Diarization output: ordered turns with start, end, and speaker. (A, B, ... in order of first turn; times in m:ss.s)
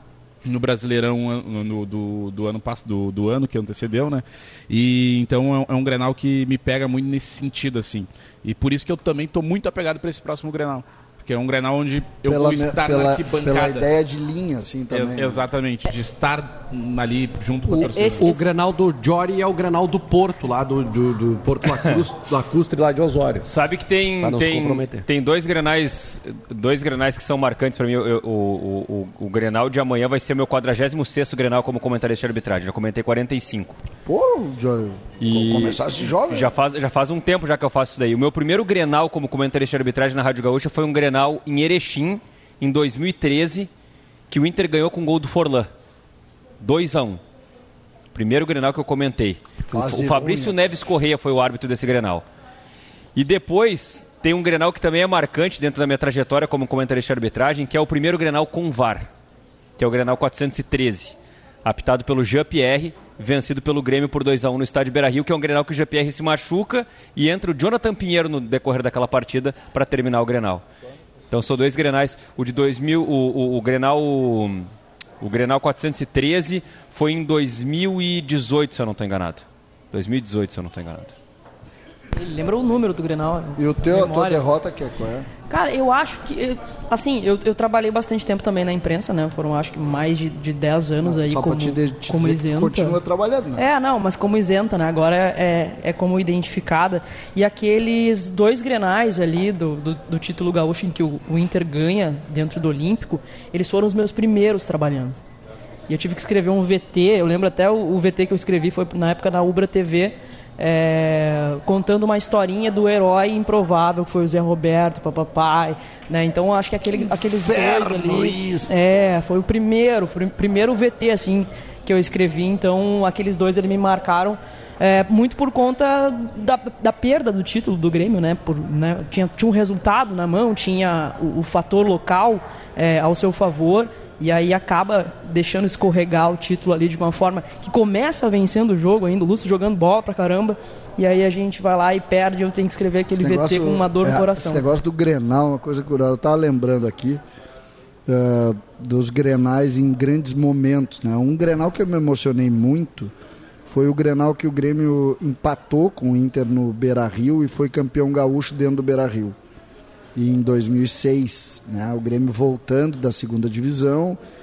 0:00.4-0:13.9 A
0:12.3-0:15.4 B
0:14.9-0:18.3 A
0:17.7-0:23.5 C
0:18.0-0:18.4 D
0:23.4-0:33.8 E
0:24.2-0:25.1 C
0:34.0-0:36.5 B
0:35.2-0:43.7 E
0:44.3-0:45.7 E
0:46.6-0:47.2 E
0:48.1-0:52.2 E
0:49.6-0:50.6 B
0:53.2-0:59.1 E
0:59.8-1:10.6 E
1:11.3-1:14.7 E
1:15.2-1:21.1 E
1:22.1-1:24.5 D
1:23.6-1:25.3 B
1:25.5-1:33.0 D
1:31.0-1:33.7 B
1:33.6-1:45.2 D
1:45.9-2:24.6 D
1:57.0-1:58.7 B
2:23.1-2:27.2 B
2:28.1-2:33.1 B
2:33.7-2:39.4 B
2:40.2-2:44.2 B